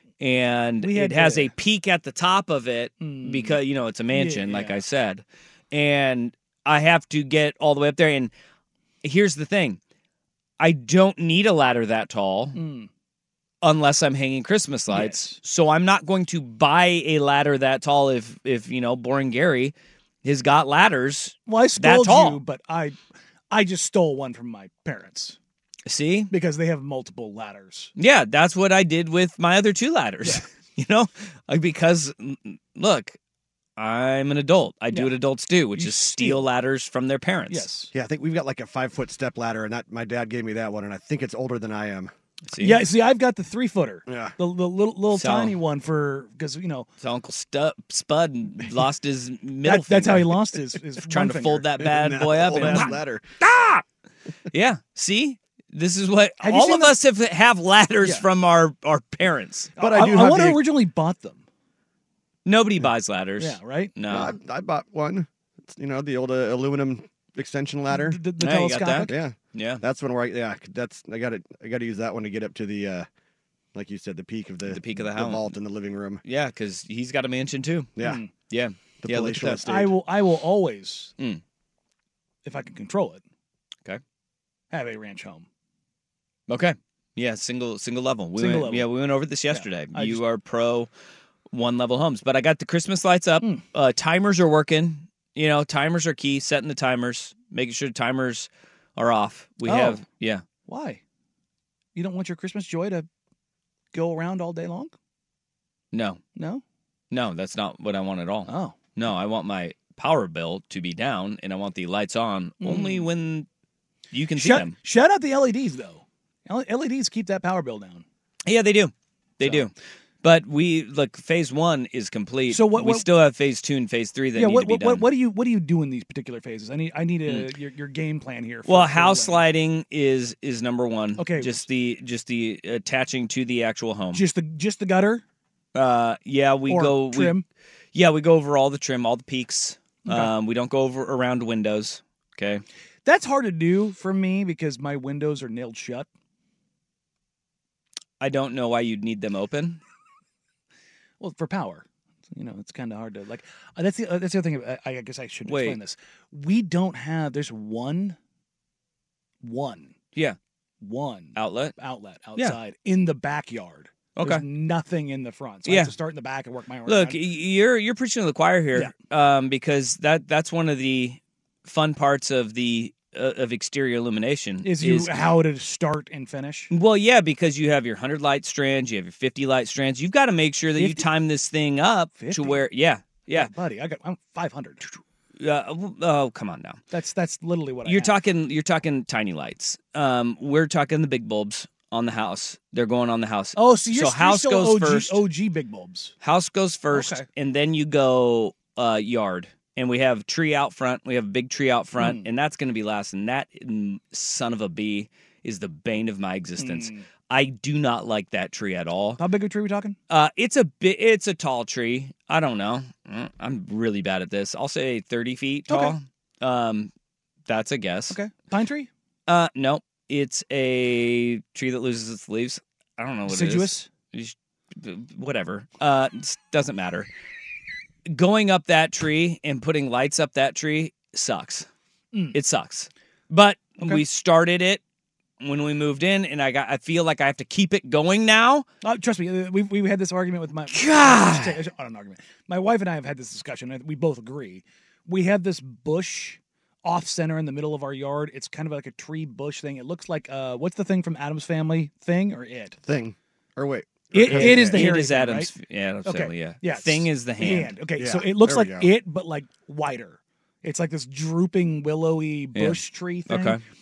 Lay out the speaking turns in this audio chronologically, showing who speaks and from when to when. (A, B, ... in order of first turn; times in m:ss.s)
0:00.2-0:08.3 A
0:00.8-0:01.5 B
0:03.0-0:04.8 B
0:09.0-0:09.8 A
0:10.6-0:12.6 A
0:12.5-0:12.9 B
0:13.6-0:22.4 A
0:14.9-0:15.4 B
0:21.5-0:23.0 B
0:23.5-0:25.4 B
0:25.9-0:26.3 A
0:26.3-0:27.9 B
0:28.0-0:33.2 A
0:33.8-0:37.7 A
0:35.7-0:36.5 B
0:37.5-0:37.9 B
0:37.9-0:42.1 C
0:42.5-0:42.8 A
0:42.6-0:46.9 B
0:44.1-0:44.4 C
0:45.1-0:45.6 A
0:47.0-0:50.4 A
0:49.6-0:53.0 B
0:51.0-0:53.8 A
0:51.8-0:53.3 C
0:54.5-0:59.7 A
0:56.4-0:57.0 B
0:58.0-0:58.3 B
0:59.8-1:01.4 B
0:59.8-1:00.6 C
1:02.5-1:04.4 A
1:03.4-1:03.9 B
1:04.1-1:08.2 C
1:07.9-1:09.2 B
1:08.4-1:09.8 A
1:09.1-1:13.1 C
1:13.8-1:16.2 C
1:14.7-1:15.6 A
1:16.2-1:17.9 A
1:18.0-1:18.2 C
1:18.0-1:18.3 B
1:18.5-1:19.6 A
1:19.0-1:20.0 C
1:19.6-1:21.1 B
1:22.4-1:23.2 B
1:24.7-1:25.4 B
1:26.5-1:30.9 A
1:28.4-1:28.9 B
1:29.5-1:30.2 B
1:31.5-1:40.4 A
1:39.6-1:40.0 B
1:40.7-1:41.0 B
1:42.0-1:43.1 B
1:43.9-1:44.9 B
1:45.9-1:46.2 A
1:46.4-1:46.6 B
1:47.1-1:53.5 A
1:48.5-1:48.8 B
1:52.6-1:53.1 B
1:54.1-1:54.8 A
1:54.4-1:58.0 B
1:58.5-2:05.1 A
1:59.4-1:59.7 B
2:02.5-2:03.1 B
2:04.3-2:09.5 B
2:08.6-2:14.2 A
2:11.2-2:11.6 B
2:14.1-2:15.2 B
2:15.8-2:17.4 A
2:16.7-2:17.5 B
2:17.9-2:22.6 A
2:20.0-2:20.3 B
2:23.0-2:26.1 B
2:28.2-2:29.8 A
2:31.2-2:38.2 B
2:35.5-2:35.8 A
2:39.4-2:40.0 B
2:40.8-2:47.2 B
2:41.4-2:41.8 A
2:44.2-2:44.4 A
2:45.6-2:45.9 A
2:46.9-2:55.3 A
2:54.6-2:56.7 B
2:56.7-3:03.5 A
3:00.8-3:01.1 B
3:02.2-3:02.6 B
3:03.3-3:05.0 B
3:05.4-3:06.8 A
3:06.9-3:08.2 B
3:07.8-3:15.2 A
3:13.6-3:16.1 B
3:16.2-3:29.2 A
3:16.9-3:17.3 B
3:22.0-3:22.3 B
3:26.6-3:27.1 B
3:29.2-3:30.0 B
3:30.1-3:36.9 A
3:35.7-3:36.0 B
3:37.5-3:38.2 A
3:38.1-3:38.9 B
3:39.3-3:47.1 A
3:43.3-3:43.9 B
3:48.1-3:51.7 A
3:52.3-3:54.8 A
3:55.4-3:58.7 A
3:58.8-4:12.8 B
4:00.7-4:01.6 A
4:12.8-4:14.9 C
4:14.1-4:15.5 B
4:14.2-4:17.8 A
4:16.0-4:23.6 B
4:18.0-4:18.9 C
4:22.5-4:23.6 A